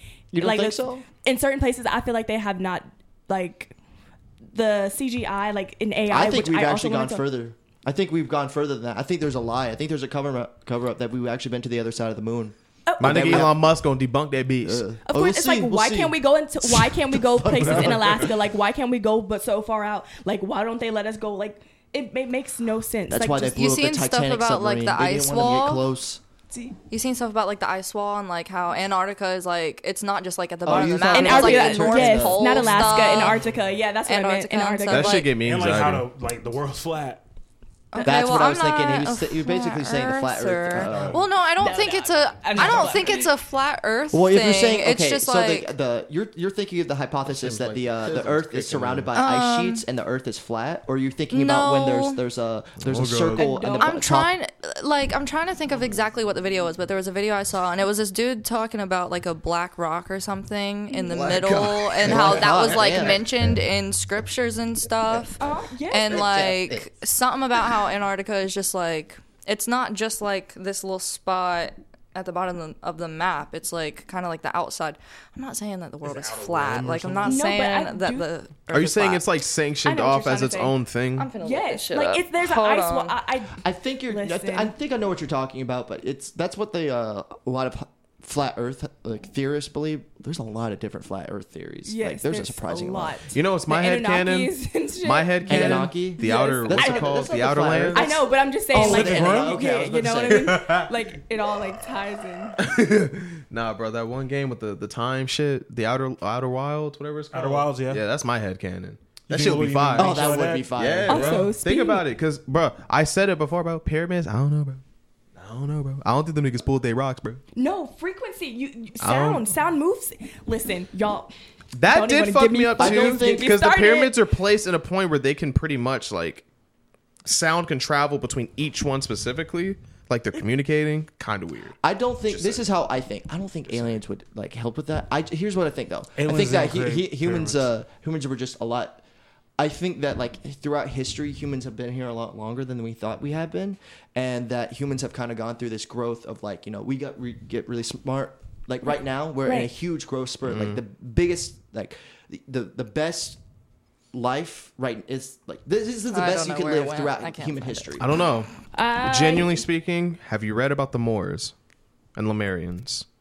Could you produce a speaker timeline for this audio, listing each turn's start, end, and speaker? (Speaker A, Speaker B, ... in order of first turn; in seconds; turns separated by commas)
Speaker A: 0.3-1.0, Speaker B: 0.4-3.7, Speaker B: 4.5-7.2, Speaker A: 6.1-13.6, Speaker B: 12.9-13.5, Speaker C: 13.0-14.9, Speaker A: 14.6-18.3, Speaker B: 15.1-23.6, Speaker A: 23.1-26.2, Speaker D: 23.5-25.9, Speaker B: 26.5-26.8, Speaker D: 26.9-33.4, Speaker A: 30.6-32.9, Speaker B: 31.1-35.3, Speaker E: 33.1-33.7, Speaker D: 34.0-35.3, Speaker C: 34.9-36.1, Speaker E: 35.4-37.2, Speaker D: 37.9-45.7, Speaker A: 38.0-41.2, Speaker E: 40.9-41.2, Speaker B: 41.6-43.3, Speaker A: 44.1-54.3, Speaker C: 47.2-49.1, Speaker D: 49.1-49.8, Speaker D: 51.3-52.2, Speaker C: 52.8-53.5, Speaker B: 53.3-54.0, Speaker D: 53.8-65.4, Speaker A: 61.0-63.3, Speaker C: 62.0-63.0, Speaker B: 65.4-66.2, Speaker D: 65.9-79.2, Speaker A: 66.1-66.9, Speaker E: 76.0-77.4, Speaker B: 77.2-78.2, Speaker C: 78.7-81.3, Speaker B: 79.8-80.8, Speaker D: 81.2-83.2, Speaker B: 81.4-84.7, Speaker A: 83.6-93.2, Speaker B: 91.8-97.2, Speaker C: 93.3-98.2, Speaker A: 95.5-100.8, Speaker B: 97.9-102.6, Speaker E: 98.7-99.6, Speaker C: 100.4-100.7, Speaker C: 102.6-114.8, Speaker E: 107.3-108.0, Speaker E: 109.3-111.4, Speaker A: 110.0-111.4, Speaker B: 111.1-112.0, Speaker C: 115.4-117.4, Speaker B: 117.5-121.3, Speaker C: 119.0-119.5, Speaker C: 121.7-126.4, Speaker B: 121.8-124.2, Speaker A: 122.8-123.5, Speaker C: 127.2-131.8, Speaker A: 131.8-139.0, Speaker E: 136.2-137.7, Speaker A: 139.6-153.4, Speaker B: 149.4-149.7, Speaker C: 150.4-150.8, Speaker A: 154.1-158.1, Speaker D: 156.1-158.0, Speaker C: 158.0-161.5, Speaker B: 158.7-159.6, Speaker C: 162.2-163.1